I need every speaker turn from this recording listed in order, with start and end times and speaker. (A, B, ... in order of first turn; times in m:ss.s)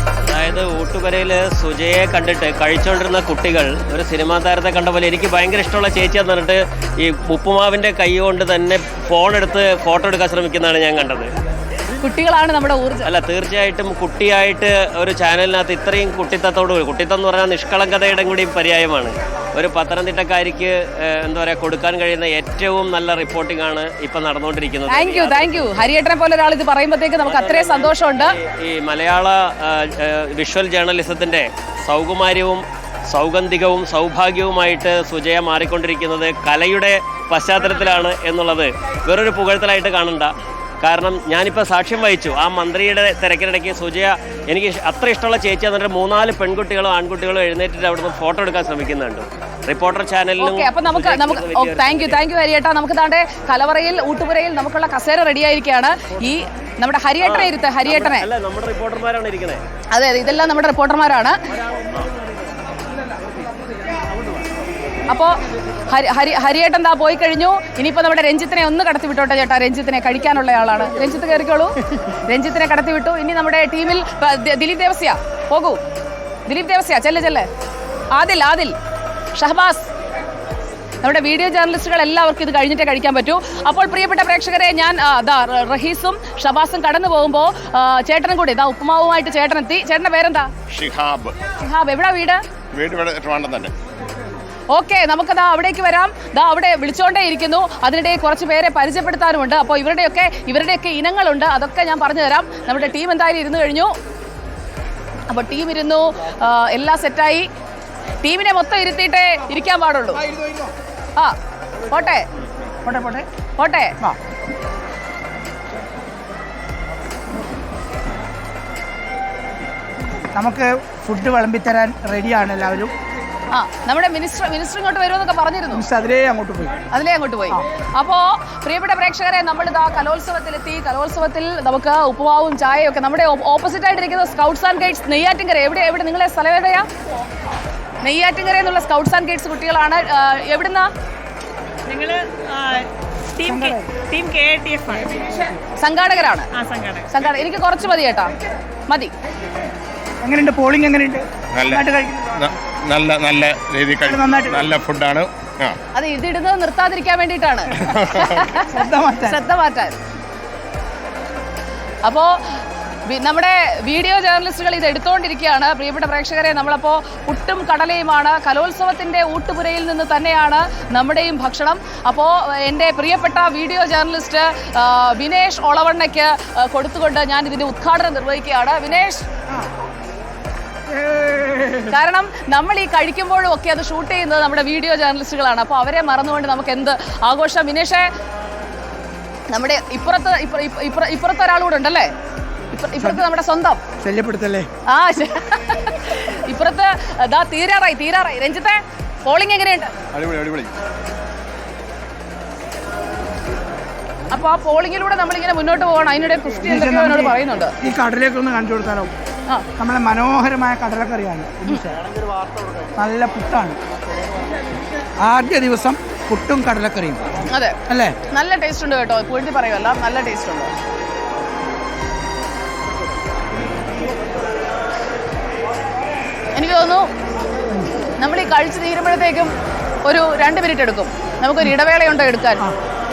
0:00.3-0:11.3 A
0:12.0-0:13.1 B
0:13.0-0:25.8 A
0:24.9-0:28.3 B
0:27.2-0:40.3 A
0:40.8-0:52.2 A
0:50.4-0:58.3 B
0:57.2-0:59.6 A
0:59.9-1:01.4 B
1:05.9-1:15.8 B
1:16.5-1:17.5 B
1:18.2-1:18.7 B
1:19.4-1:19.9 B
1:21.0-1:30.5 B
1:30.7-1:31.4 C
1:31.6-1:32.4 B
1:32.7-1:33.7 C
1:34.7-1:43.9 B
1:45.3-1:47.5 B
1:48.2-1:50.2 B
1:50.2-1:50.7 D
1:51.9-1:52.2 B
1:52.8-1:53.2 D
1:53.6-1:53.9 B
2:00.3-2:02.9 D
2:03.5-2:05.8 B
2:05.7-2:06.7 D
2:06.9-2:16.8 B
2:18.0-2:20.9 B
2:21.9-2:25.5 E
2:23.4-2:23.9 D
2:25.8-2:26.5 B
2:26.5-2:27.1 E
2:27.1-2:28.3 B
2:30.2-2:32.4 D
2:31.6-2:31.8 C
2:32.4-2:35.8 C
2:34.0-2:34.7 D
2:35.9-2:40.0 B
2:37.8-2:38.4 C
2:38.6-2:39.4 D
2:42.0-2:42.4 B
2:43.1-2:59.3 B
3:00.9-3:01.9 D
3:01.9-3:08.1 B
3:09.5-3:12.1 B
3:12.7-3:13.8 B
3:14.0-3:14.7 D
3:14.9-3:19.9 B
3:20.3-3:20.7 D
3:24.3-3:27.7 B
3:26.6-3:29.1 D
3:29.8-3:32.1 D
3:33.0-3:33.8 D
3:35.2-3:37.2 D
3:37.5-3:37.7 B
3:37.9-3:38.2 D
3:38.3-3:40.7 B
3:46.6-3:47.1 B
3:48.2-3:49.5 B
3:50.0-3:52.7 B